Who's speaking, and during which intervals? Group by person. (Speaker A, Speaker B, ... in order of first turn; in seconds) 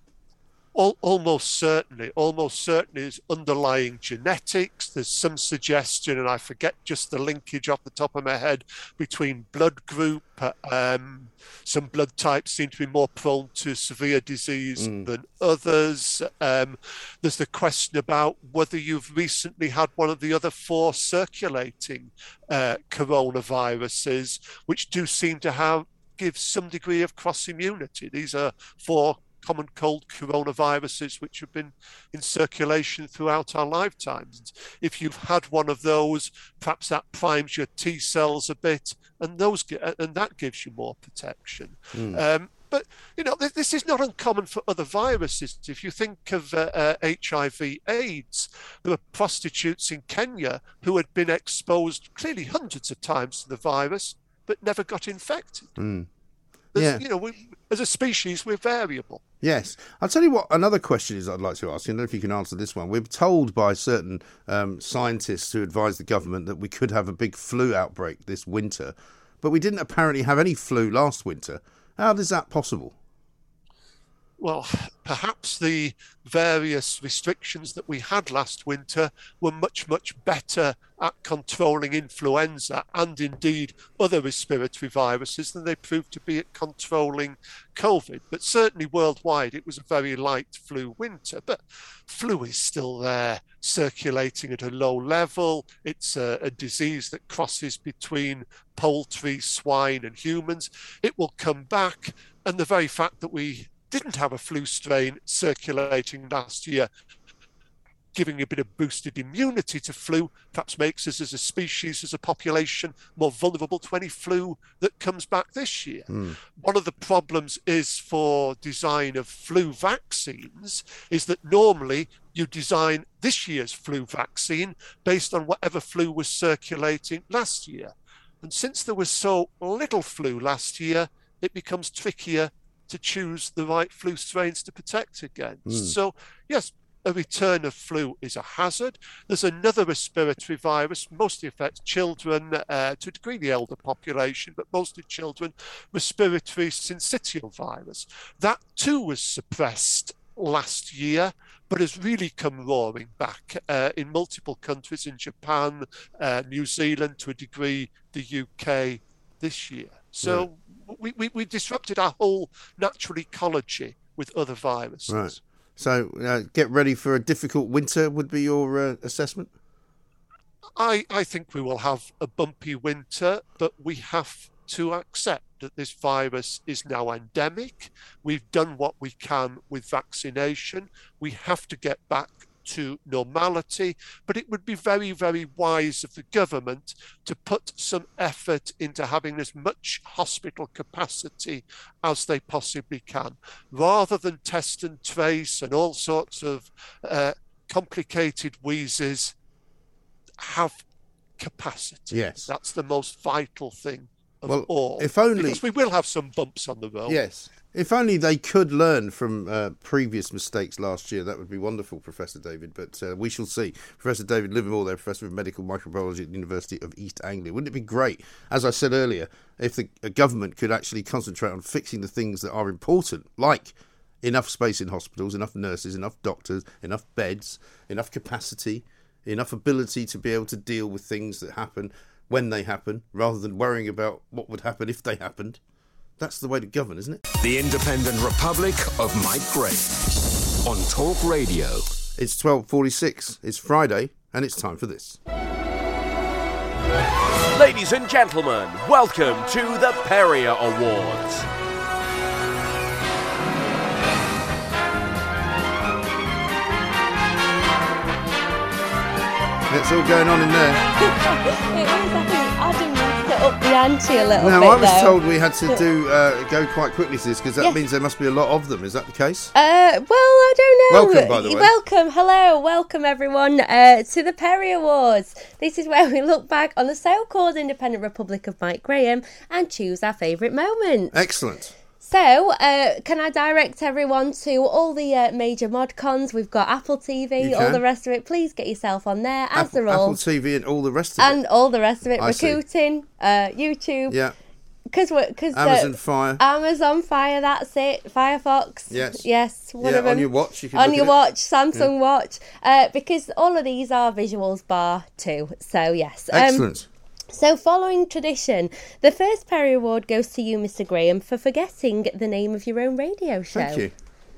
Speaker A: 0.7-55.7, 56.7-59.2, 74.4-106.9, 108.1-165.4, 170.8-199.4, 200.4-200.8, 201.4-207.2
Speaker B: 14.8-15.1, 41.9-42.2, 55.8-56.1, 56.7-57.0, 59.4-72.9, 116.1-116.4, 135.7-135.9, 160.2-160.5, 165.1-169.5, 202.1-202.5, 204.5-205.6, 207.1-235.6, 236.2-237.2, 242.2-245.2, 259.7-260.8, 264.3-269.5, 270.9-271.7, 281.1-281.8, 287.4-287.8, 289.6-291.4, 292.2-292.6, 294.1-294.3, 295.5-296.4, 298.9-299.2, 299.8-301.2, 306.3-306.9, 313.5-313.9
Speaker C: 237.4-239.9, 240.6-241.8
Speaker D: 247.5-251.5
Speaker E: 261.0-265.8, 269.5-281.2, 282.0-290.2, 291.2-294.2, 294.9-306.7, 307.3-313.9